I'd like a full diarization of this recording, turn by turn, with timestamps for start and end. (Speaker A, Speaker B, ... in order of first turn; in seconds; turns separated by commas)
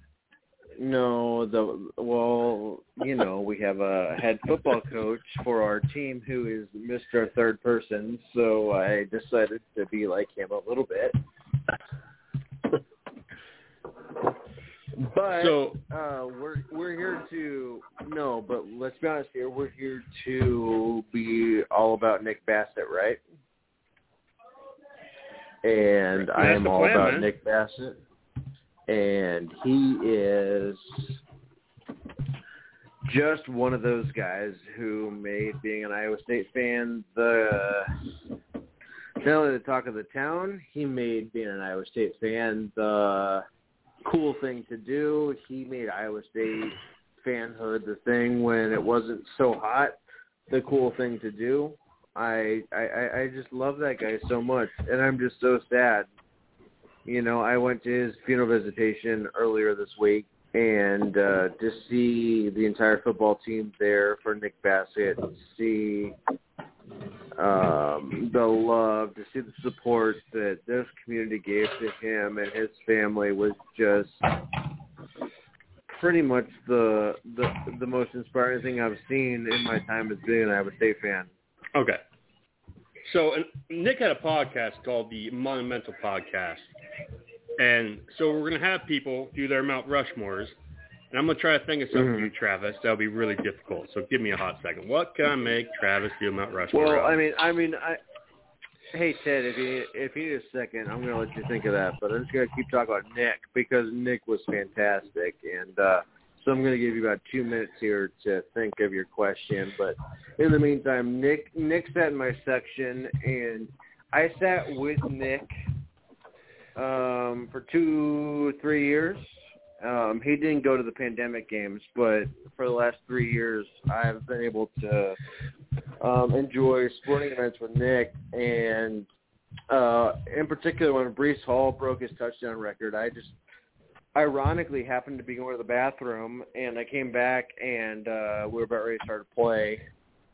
Speaker A: 0.8-11.2, Speaker A: 15.1-23.2, Speaker B: 15.3-15.8, Speaker A: 25.6-28.0, Speaker B: 26.3-27.3, Speaker A: 28.9-31.2, Speaker A: 33.1-37.9, Speaker A: 39.2-43.4, Speaker A: 44.0-50.0, Speaker A: 50.5-56.1, Speaker A: 57.0-66.1, Speaker A: 67.4-74.3, Speaker A: 75.9-81.3, Speaker B: 81.7-82.0, Speaker B: 83.0-86.7, Speaker B: 87.6-90.5, Speaker B: 91.1-97.2, Speaker A: 91.9-92.3, Speaker A: 96.7-98.0, Speaker A: 98.9-115.5, Speaker A: 116.7-125.2, Speaker A: 126.0-129.1, Speaker A: 129.7-133.3, Speaker A: 134.1-139.8